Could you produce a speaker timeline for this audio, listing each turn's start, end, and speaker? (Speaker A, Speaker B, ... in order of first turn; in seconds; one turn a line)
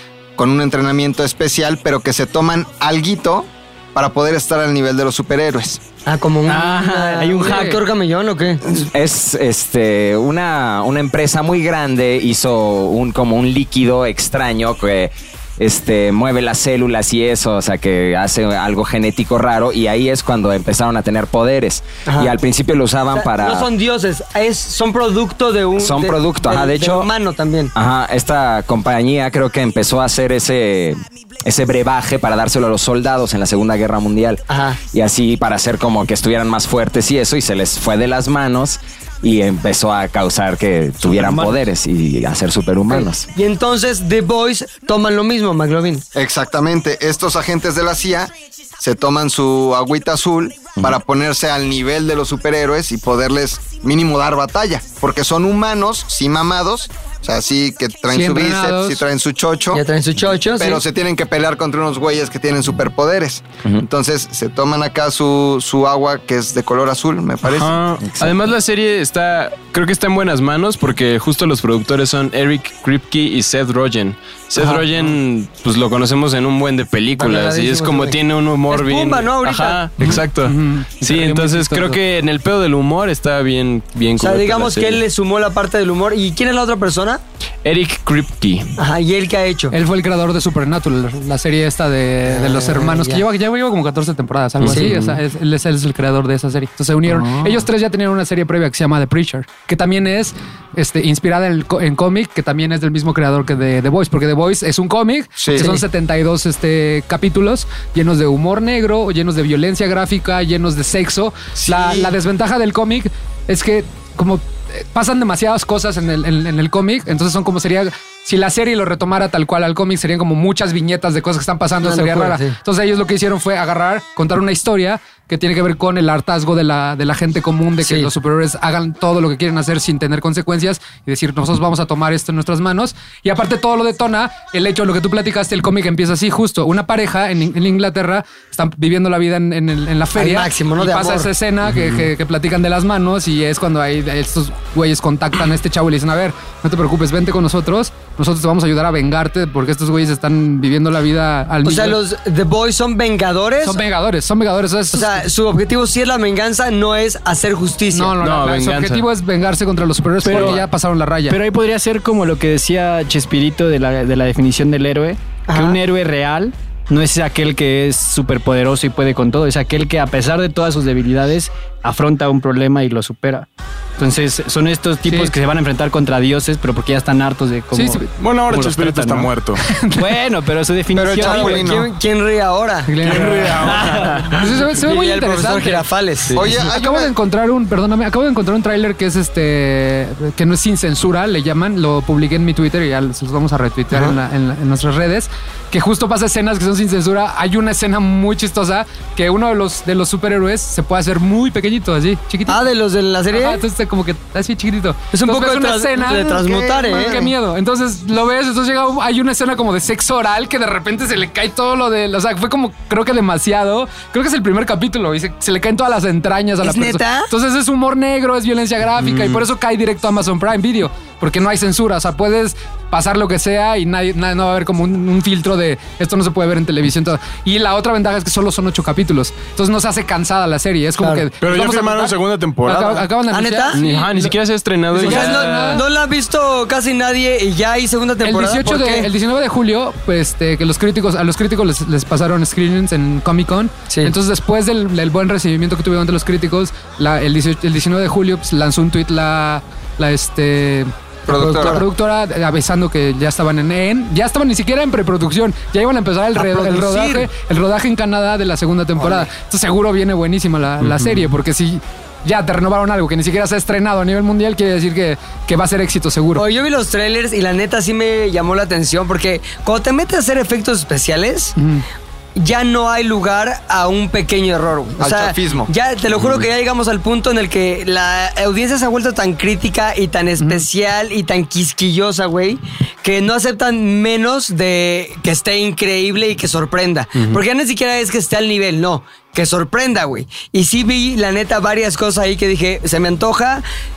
Speaker A: 0.4-5.8
Speaker B: 6.1-8.9
Speaker C: 6.5-7.8
Speaker D: 8.8-23.7
Speaker B: 22.1-22.4
Speaker B: 23.1-27.7
Speaker D: 25.8-27.1
Speaker D: 27.8-43.3
Speaker B: 34.5-34.8
Speaker C: 41.1-41.5
Speaker B: 42.9-46.0
Speaker A: 46.1-59.8
Speaker E: 58.1-59.0
Speaker B: 59.7-60.8
Speaker A: 60.6-67.8
Speaker F: 67.4-85.0
Speaker D: 68.0-68.4
Speaker B: 77.2-80.2
Speaker E: 80.0-82.0
Speaker B: 84.2-87.2
Speaker F: 87.6-88.7
Speaker B: 88.8-89.8
Speaker E: 89.7-152.0
Speaker B: 92.3-93.2
Speaker F: 94.6-95.2
Speaker B: 94.6-94.9
Speaker A: 105.4-105.7
Speaker B: 105.5-105.8
Speaker A: 111.6-112.2
Speaker B: 121.8-122.6
Speaker B: 127.8-128.1
Speaker B: 140.2-141.3
Speaker B: 151.6-153.8
Speaker E: 153.6-155.3
Speaker B: 154.9-158.2
Speaker E: 157.9-161.4
Speaker F: 158.2-159.1
Speaker C: 160.2-160.7
Speaker F: 160.3-160.6
Speaker C: 161.3-173.5
Speaker B: 165.5-165.8
Speaker C: 174.0-179.3
Speaker E: 175.1-175.3
Speaker E: 177.7-178.1
Speaker G: 178.2-179.6
Speaker E: 179.6-180.2
Speaker C: 179.9-181.8
Speaker A: 180.9-181.9
Speaker B: 181.2-183.5
Speaker E: 182.9-185.9
Speaker G: 183.0-184.5
Speaker C: 183.7-184.2
Speaker B: 184.4-186.4
Speaker A: 186.3-187.1
Speaker E: 186.5-202.6
Speaker B: 202.5-203.6
Speaker E: 203.3-234.4
Speaker B: 205.1-207.3
Speaker A: 206.4-207.3
Speaker B: 216.6-217.3
Speaker F: 219.0-219.4
Speaker B: 231.0-231.3
Speaker G: 231.4-233.1
Speaker B: 233.3-233.8
Speaker F: 233.7-235.8
Speaker E: 234.9-235.9
Speaker B: 234.9-239.1
Speaker E: 238.2-266.5
Speaker B: 243.9-244.1
Speaker A: 251.3-251.8
Speaker B: 256.4-257.2
Speaker B: 259.0-259.3
Speaker B: 266.4-271.6
Speaker E: 271.6-271.8
Speaker B: 272.4-293.6
Speaker A: 275.0-275.7
Speaker F: 287.2-287.4